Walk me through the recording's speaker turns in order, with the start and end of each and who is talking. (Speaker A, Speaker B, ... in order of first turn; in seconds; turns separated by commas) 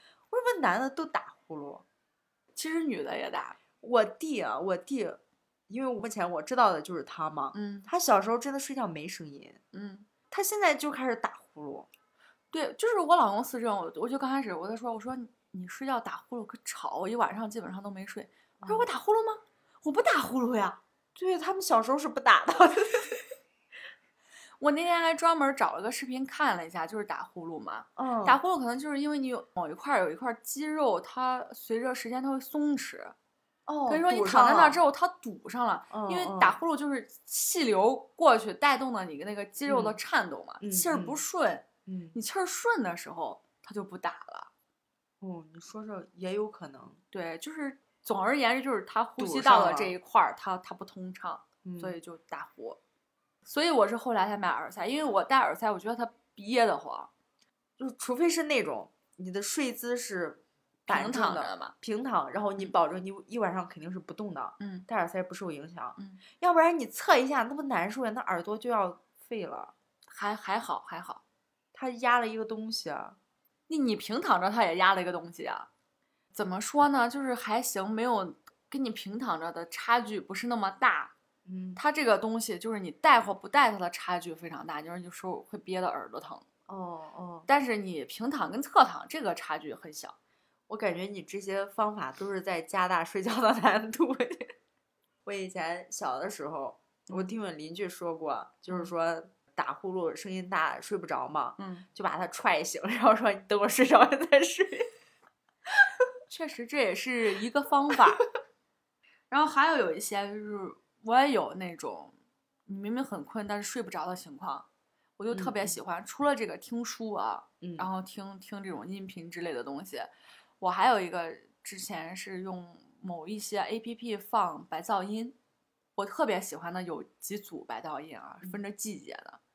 Speaker A: 0.3-1.8, Speaker B: 2.6-3.6, Speaker A: 3.8-9.6, Speaker B: 7.5-7.9, Speaker B: 9.7-10.1, Speaker A: 10.3-11.9, Speaker B: 12.5-20.8, Speaker A: 18.6-18.9, Speaker A: 21.1-23.2, Speaker B: 24.6-33.1, Speaker A: 27.9-28.4, Speaker A: 33.7-34.8, Speaker B: 33.9-44.5, Speaker A: 35.9-36.6, Speaker A: 39.7-40.0, Speaker A: 40.6-41.2, Speaker A: 41.9-42.1, Speaker A: 45.2-47.0, Speaker B: 47.1-52.8, Speaker A: 49.2-49.9, Speaker A: 51.6-51.9, Speaker B: 53.5-57.1, Speaker A: 57.8-69.7, Speaker B: 60.9-61.7, Speaker B: 64.6-64.9, Speaker B: 70.1-71.2, Speaker A: 71.7-73.2, Speaker B: 73.7-75.7, Speaker B: 76.3-81.1, Speaker A: 81.5-81.8, Speaker B: 81.8-86.5, Speaker A: 86.7-87.5, Speaker B: 87.5-90.1, Speaker A: 90.7-94.5, Speaker A: 95.2-104.9, Speaker B: 97.1-97.3, Speaker B: 101.6-101.9, Speaker B: 106.3-108.3, Speaker B: 109.3-112.1, Speaker B: 112.7-114.7, Speaker B: 115.2-125.4, Speaker A: 115.3-115.8, Speaker A: 117.6-117.9, Speaker B: 126.0-129.4